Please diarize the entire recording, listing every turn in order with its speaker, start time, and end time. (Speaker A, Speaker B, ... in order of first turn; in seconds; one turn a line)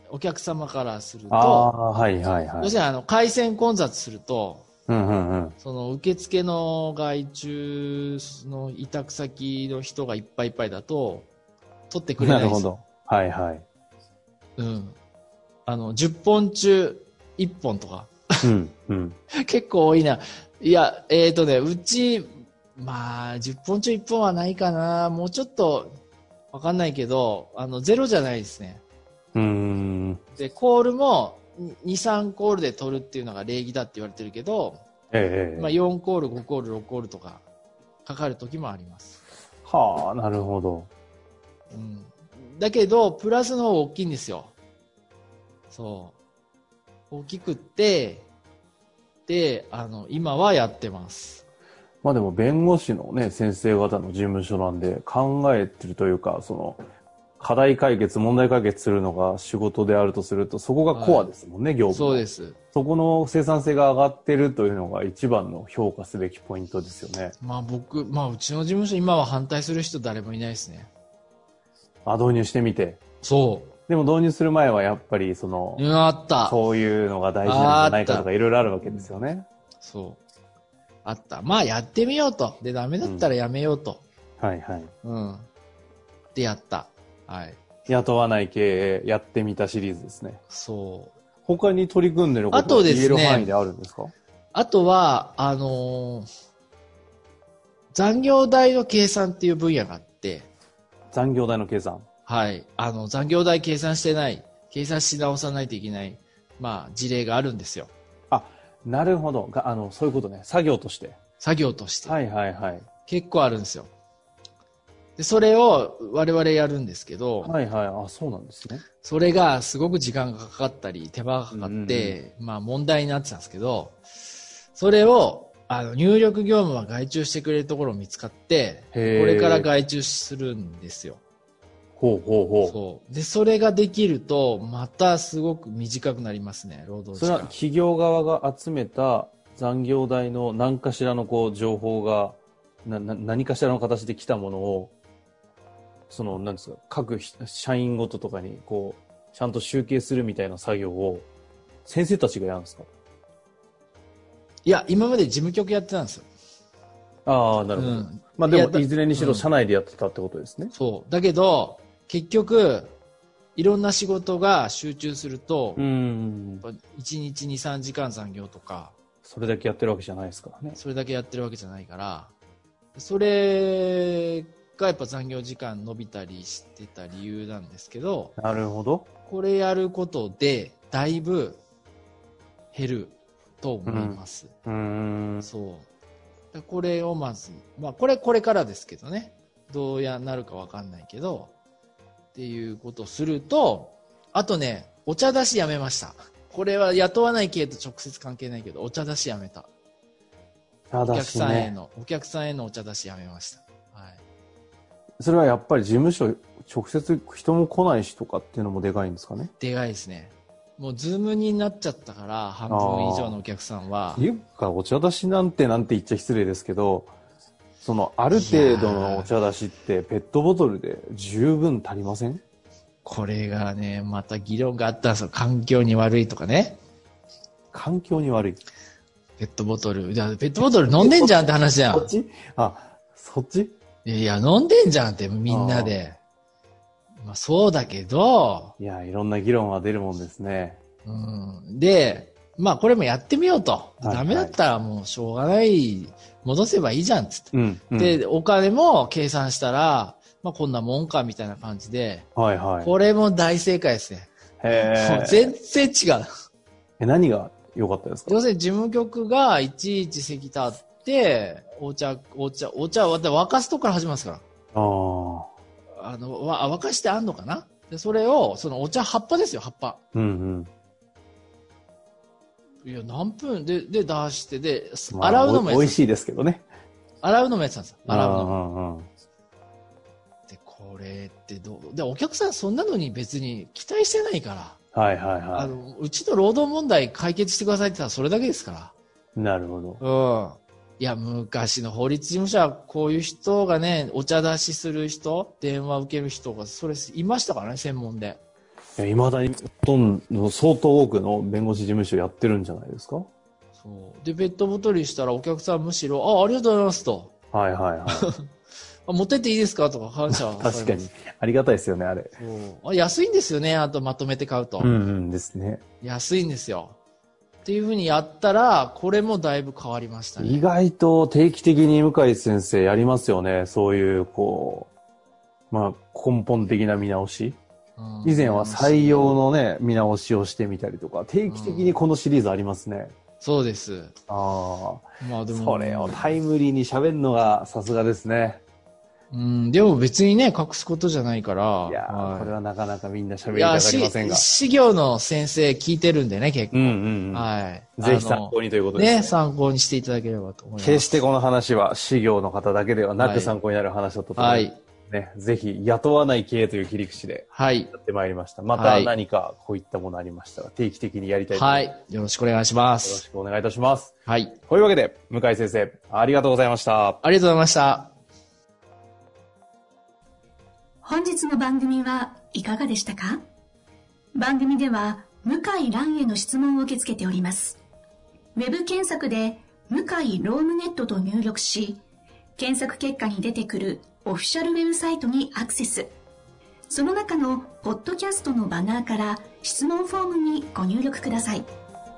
Speaker A: 0.1-1.7
Speaker B: 1.3-2.7
Speaker A: 2.6-4.7
Speaker B: 4.9-5.5
Speaker A: 5.6-11.3
Speaker A: 11.9-12.7
Speaker B: 12.2-13.6
Speaker A: 14.6-14.9
Speaker A: 15.7-18.5
Speaker B: 18.4-19.2
Speaker A: 19.3-26.0
Speaker A: 26.5-28.8
Speaker B: 29.3-30.2
Speaker A: 30.3-34.8
Speaker B: 35.1-35.7
Speaker A: 35.5-37.4
Speaker A: 38.0-39.2
Speaker B: 39.6-40.9
Speaker A: 41.7-44.5
Speaker A: 45.7-46.2
Speaker A: 47.1-48.3
Speaker A: 49.2-51.4
Speaker B: 52.0-56.8
Speaker B: 57.4-67.3
Speaker A: 60.9-61.3
Speaker A: 61.9-62.6
Speaker A: 67.4-70.9
Speaker B: 72.0-73.0
Speaker A: 73.2-73.7
Speaker B: 73.9-75.9
Speaker A: 75.8-76.5
Speaker B: 76.4-79.5
Speaker A: 77.4-78.3
Speaker A: 78.8-79.2
Speaker A: 79.8-80.2
Speaker A: 81.0-84.0
Speaker B: 83.0-83.3
Speaker B: 84.4-84.9
Speaker A: 85.0-85.5
Speaker A: 86.3-87.6
Speaker B: 87.9-90.4
Speaker A: 90.5-91.1
Speaker B: 91.4-94.1
Speaker A: 92.5-93.5
Speaker A: 94.5-96.3
Speaker A: 97.9-100.5
Speaker B: 101.1-102.0
Speaker A: 102.2-107.9
Speaker B: 108.3-111.2
Speaker A: 111.4-112.2
Speaker B: 112.0-112.9
Speaker A: 113.0-113.9
Speaker A: 115.2-117.5
Speaker B: 117.4-118.8
Speaker A: 119.0-124.0
Speaker B: 121.5-122.2
Speaker A: 124.7-131.2
Speaker B: 128.9-129.7
Speaker B: 132.0-132.8
Speaker A: 132.6-137.5
Speaker B: 137.1-144.9
Speaker B: 146.1-151.3
Speaker B: 151.8-152.9
Speaker A: 154.6-156.3
Speaker B: 157.2-160.7
Speaker A: 157.7-159.4
Speaker A: 160.7-162.9
Speaker A: 163.5-165.8
Speaker B: 165.8-166.7
Speaker A: 166.6-168.9
Speaker B: 169.2-170.8
Speaker A: 170.8-172.3
Speaker A: 172.9-178.3
Speaker B: 178.4-179.1
Speaker A: 179.2-181.6
Speaker A: 182.7-184.5
Speaker B: 183.8-185.5
Speaker A: 185.4-185.9
Speaker A: 186.5-191.5
Speaker A: 192.3-199.7
Speaker B: 200.9-201.7
Speaker A: 201.1-204.2
Speaker B: 205.2-209.5
Speaker A: 209.6-214.2
Speaker B: 212.7-213.4
Speaker B: 214.1-217.1
Speaker B: 217.8-222.4
Speaker A: 218.3-219.3
Speaker A: 223.0-226.8
Speaker B: 227.7-228.6
Speaker A: 229.4-232.1
Speaker B: 231.0-233.7
Speaker A: 234.0-236.2
Speaker B: 235.5-235.9
Speaker A: 237.2-238.7
Speaker B: 238.8-240.8
Speaker A: 241.0-252.3
Speaker B: 244.0-244.6
Speaker B: 247.5-248.2
Speaker B: 252.3-252.9
Speaker A: 252.8-256.3
Speaker B: 254.6-255.5
Speaker B: 257.0-258.4
Speaker A: 258.3-264.4
Speaker B: 264.7-265.5
Speaker A: 266.0-270.0
Speaker B: 270.1-270.7
Speaker A: 272.8-276.0
Speaker B: 275.1-276.6
Speaker A: 277.2-278.6
Speaker B: 278.1-279.1
Speaker A: 280.5-284.8
Speaker B: 284.9-285.7
Speaker A: 285.5-288.9
Speaker B: 289.4-290.0
Speaker A: 290.0-298.4
Speaker B: 299.0-303.3
Speaker A: 303.8-307.3
Speaker B: 307.5-308.3
Speaker A: 308.1-308.5
Speaker A: 309.1-311.1
Speaker B: 310.3-312.3
Speaker A: 312.4-314.9
Speaker B: 314.8-315.8
Speaker A: 316.0-317.0
Speaker A: 317.6-320.6
Speaker B: 320.4-324.9
Speaker B: 325.7-327.6
Speaker A: 328.0-329.4
Speaker B: 328.2-333.1
Speaker A: 331.5-332.0
Speaker A: 333.4-334.1
Speaker B: 334.3-338.6
Speaker A: 335.2-336.2
Speaker A: 339.3-342.5
Speaker B: 341.9-344.4
Speaker A: 343.5-351.2
Speaker B: 346.7-349.3
Speaker B: 350.8-361.9
Speaker A: 353.2-353.6
Speaker A: 354.4-354.8
Speaker A: 357.5-357.9
Speaker A: 358.7-359.1
Speaker A: 361.5-363.2
Speaker B: 363.0-364.1
Speaker A: 364.2-364.6
Speaker B: 364.7-367.2
Speaker A: 367.2-368.1
Speaker C: 371.0-373.4
Speaker C: 374.4-377.8
Speaker C: 378.5-382.0
Speaker C: 382.6-386.1
Speaker C: 386.9-391.7